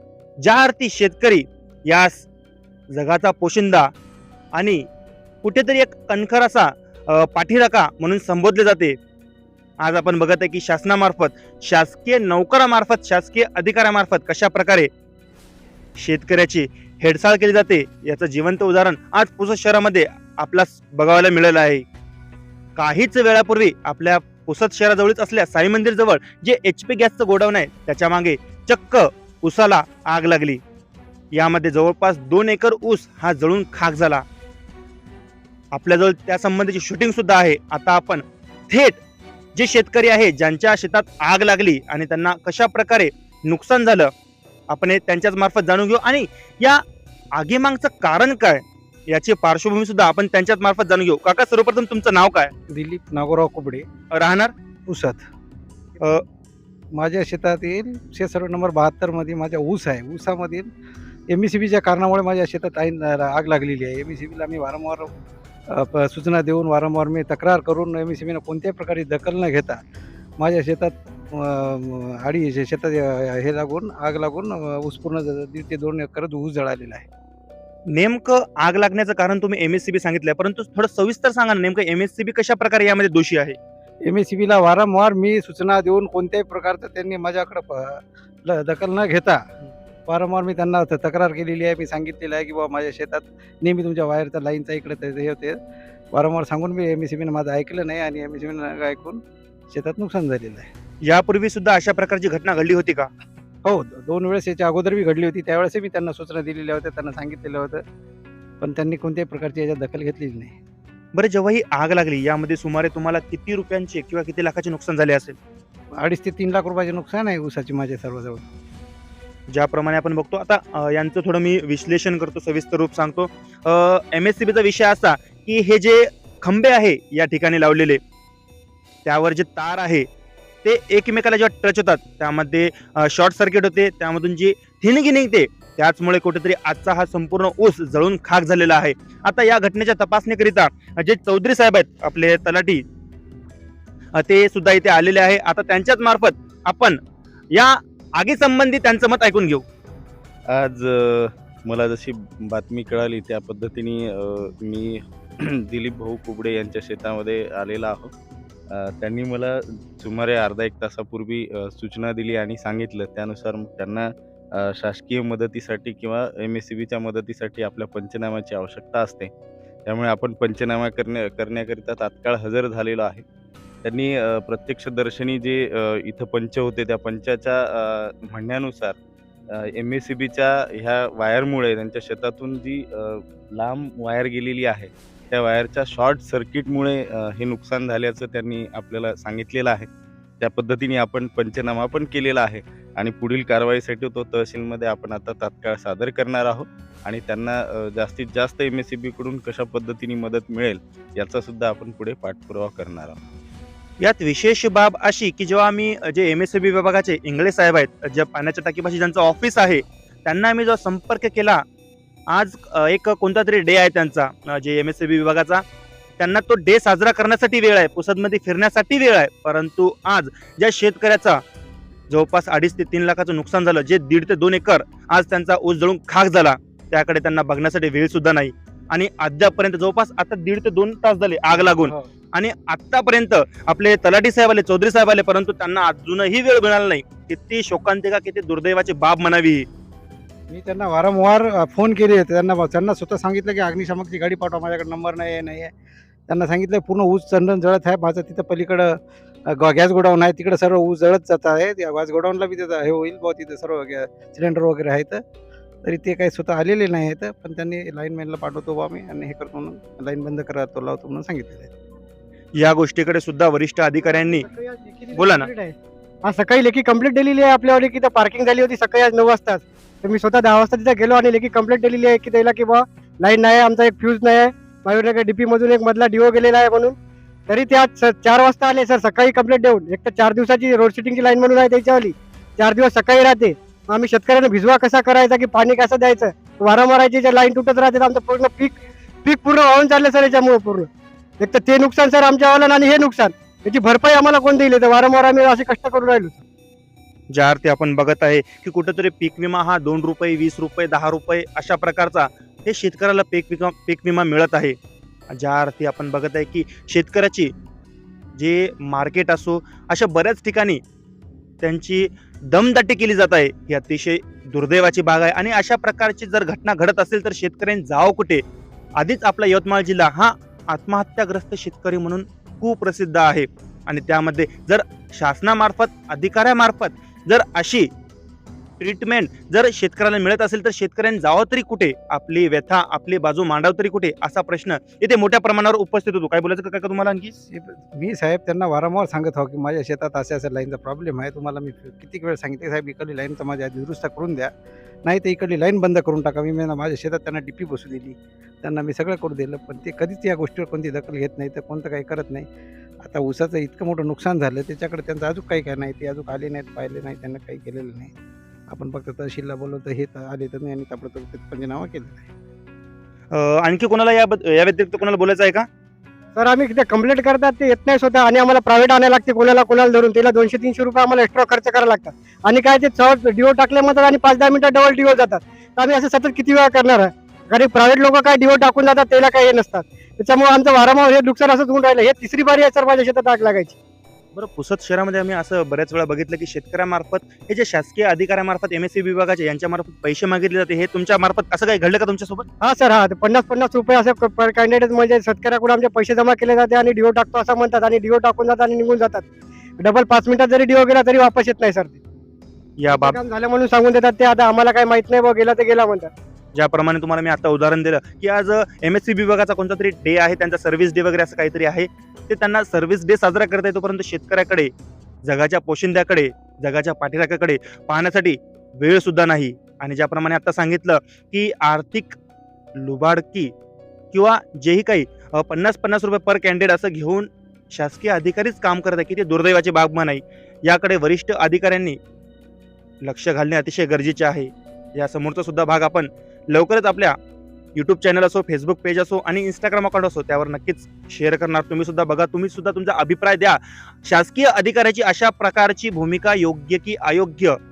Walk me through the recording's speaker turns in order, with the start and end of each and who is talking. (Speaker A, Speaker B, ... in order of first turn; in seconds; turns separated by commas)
Speaker A: 0.4-2.2, Speaker A: 2.9-3.9, Speaker A: 4.6-4.8, Speaker A: 5.4-9.0, Speaker A: 9.8-14.9, Speaker A: 16.0-21.9, Speaker A: 22.8-30.6, Speaker A: 31.3-34.2, Speaker A: 35.7-39.0, Speaker A: 39.6-44.1, Speaker A: 44.7-46.8, Speaker A: 47.4-52.5, Speaker B: 52.7-53.9, Speaker A: 54.2-54.5, Speaker B: 54.9-55.3, Speaker B: 56.9-60.7, Speaker B: 61.3-65.1, Speaker B: 65.7-69.8, Speaker B: 70.4-77.1, Speaker A: 78.0-83.6, Speaker B: 84.0-89.4, Speaker B: 90.1-95.6, Speaker B: 96.1-100.7, Speaker A: 101.0-103.1, Speaker B: 103.7-107.8, Speaker B: 108.6-110.6, Speaker A: 111.2-115.4, Speaker B: 116.0-118.5, Speaker A: 119.5-128.0, Speaker A: 129.1-130.1, Speaker A: 130.6-142.8, Speaker A: 144.2-147.0, Speaker A: 147.6-149.7, Speaker C: 150.5-158.1, Speaker C: 158.7-169.3, Speaker C: 169.9-173.3, Speaker C: 173.8-179.0, Speaker C: 179.5-189.9, Speaker C: 190.4-203.2, Speaker A: 204.0-211.6, Speaker A: 212.3-215.6, Speaker A: 216.2-221.4, Speaker A: 222.1-239.7, Speaker B: 231.8-232.1, Speaker B: 240.5-245.7, Speaker B: 246.3-255.2, Speaker B: 255.8-261.7, Speaker A: 262.6-264.4, Speaker D: 264.0-277.0, Speaker A: 265.1-265.5, Speaker D: 277.5-290.9, Speaker D: 291.4-296.4, Speaker A: 297.3-304.8, Speaker A: 305.3-307.5, Speaker A: 308.4-310.8, Speaker A: 311.6-318.4, Speaker A: 319.0-327.9, Speaker A: 328.8-337.3, Speaker B: 337.4-344.5, Speaker B: 345.1-352.5, Speaker B: 353.0-358.1, Speaker B: 358.7-362.3, Speaker A: 363.3-365.7, Speaker D: 366.4-383.8, Speaker A: 384.4-392.5, Speaker D: 392.6-399.3, Speaker D: 399.8-402.0, Speaker A: 402.8-403.2, Speaker D: 402.9-406.1, Speaker A: 406.6-414.7, Speaker A: 415.2-422.2, Speaker A: 422.8-423.5, Speaker A: 424.1-432.0, Speaker A: 433.1-437.1, Speaker A: 437.8-447.6